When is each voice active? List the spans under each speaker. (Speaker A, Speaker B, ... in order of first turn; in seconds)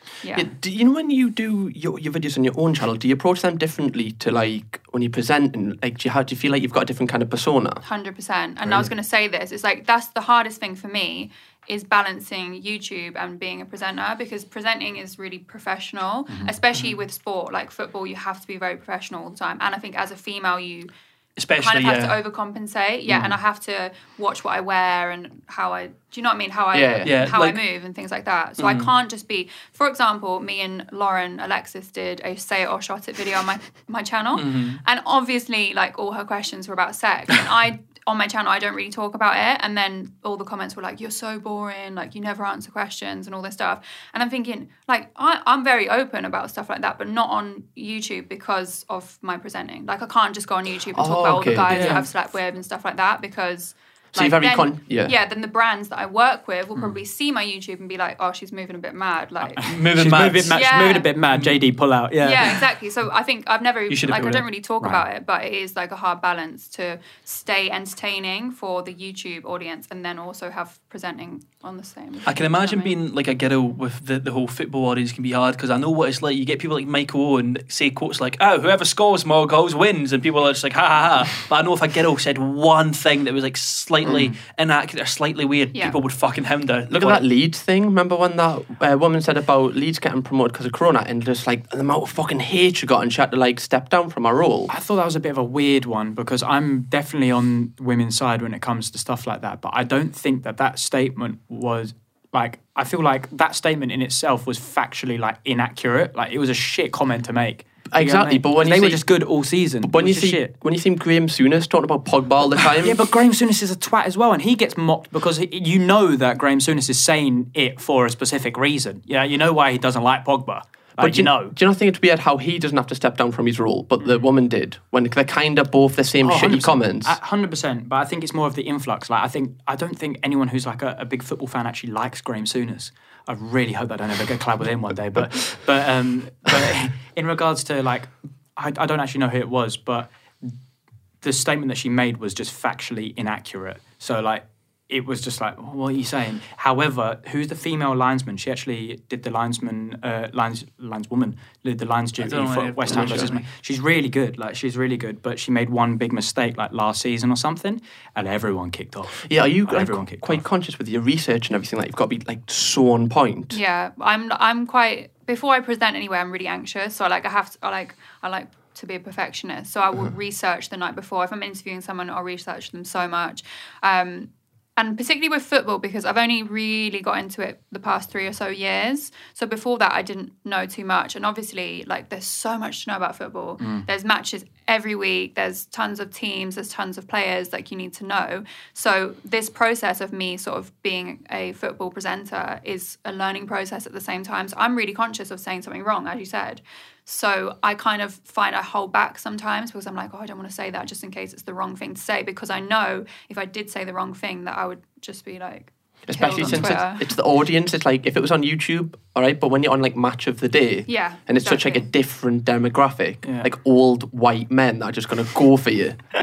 Speaker A: 0.2-0.5, 7.8-20.9, 21.6-59.7, 60.5-61.1, 62.2-73.0, 85.7-86.0, 163.5-207.1, 210.9-211.8
Speaker B: 0.3-7.8, 26.7-27.1, 50.9-51.9, 54.1-55.1, 86.9-94.7, 107.9-109.0, 109.8-113.0, 121.0-127.2, 152.9-153.3, 159.2-163.6, 206.1-216.0
Speaker C: 16.3-16.5, 51.7-52.1, 59.4-62.6, 84.1-84.3, 94.7-110.5, 112.8-121.5, 126.2-140.6, 141.2-160.4, 183.6-183.9, 213.2-213.5
Speaker D: 21.4-22.2, 27.0-27.6, 28.6-28.9, 34.4-34.8, 51.7-52.0, 59.6-60.5, 61.3-61.6, 63.9-64.5, 72.3-87.2, 152.2-153.5